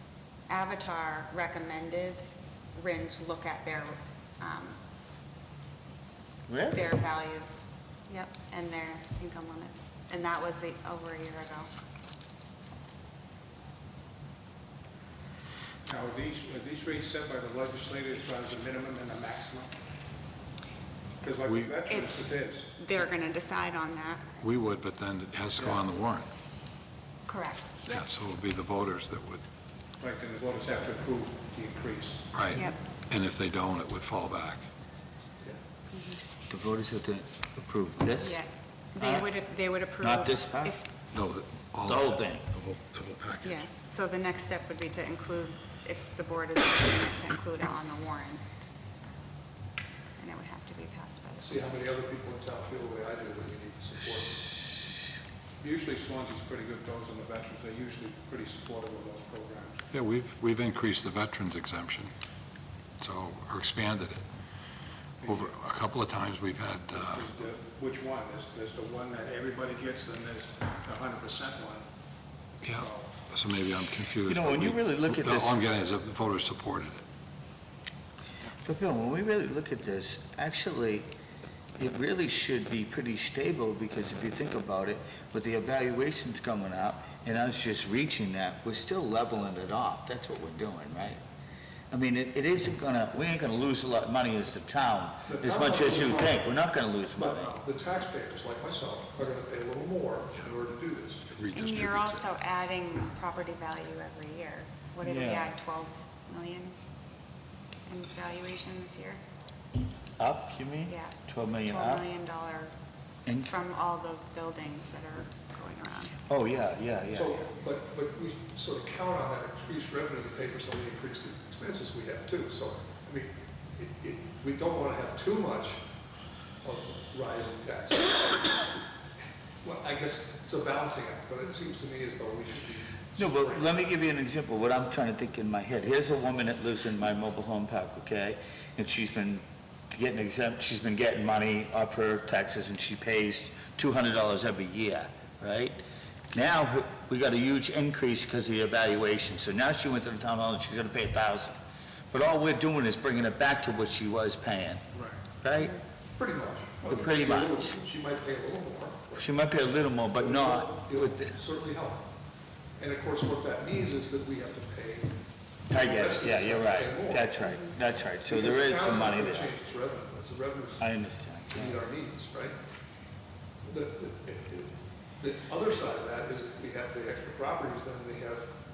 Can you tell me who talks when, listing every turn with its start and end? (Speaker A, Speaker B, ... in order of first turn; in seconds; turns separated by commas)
Speaker A: 0.5-4.8, Speaker B: 6.5-6.9, Speaker A: 6.7-11.7, Speaker C: 15.9-19.7, Speaker C: 21.2-22.7, Speaker D: 21.4-21.8, Speaker A: 21.9-24.2, Speaker D: 24.4-26.3, Speaker C: 25.6-25.9, Speaker A: 27.3-28.0, Speaker D: 27.9-29.4, Speaker C: 30.0-32.3, Speaker D: 32.3-34.6, Speaker A: 35.9-36.2, Speaker B: 36.5-38.4, Speaker A: 38.2-40.8, Speaker B: 39.0-39.3, Speaker B: 40.0-40.8, Speaker D: 41.1-43.6, Speaker B: 41.9-42.4, Speaker A: 43.4-48.4, Speaker A: 50.2-51.9, Speaker E: 51.4-54.3, Speaker C: 55.6-59.8, Speaker D: 59.9-62.1, Speaker D: 63.0-64.2, Speaker C: 65.2-65.5, Speaker D: 65.3-67.3, Speaker C: 66.9-71.9, Speaker D: 72.6-77.0, Speaker C: 72.6-73.1, Speaker B: 74.3-75.6, Speaker B: 78.6-81.1, Speaker B: 81.8-91.2, Speaker B: 91.9-97.6, Speaker E: 95.3-96.4, Speaker E: 97.2-101.2, Speaker D: 101.3-102.2, Speaker A: 101.5-106.8, Speaker B: 105.0-105.5, Speaker A: 107.9-109.2, Speaker B: 110.2-112.0, Speaker A: 110.9-112.7, Speaker B: 113.3-113.6, Speaker A: 113.4-116.2, Speaker B: 116.3-117.5, Speaker E: 117.1-125.8, Speaker E: 126.6-128.7, Speaker E: 129.6-133.8, Speaker B: 133.2-145.8, Speaker B: 146.3-151.6, Speaker B: 152.1-154.8, Speaker B: 155.4-155.8, Speaker E: 156.2-159.3, Speaker B: 156.8-157.8, Speaker B: 159.2-161.3, Speaker E: 160.1-162.1, Speaker E: 162.8-165.1, Speaker E: 165.7-167.3, Speaker B: 165.7-169.5, Speaker E: 168.3-170.9, Speaker B: 170.8-171.8, Speaker E: 171.5-172.5, Speaker E: 173.7-178.5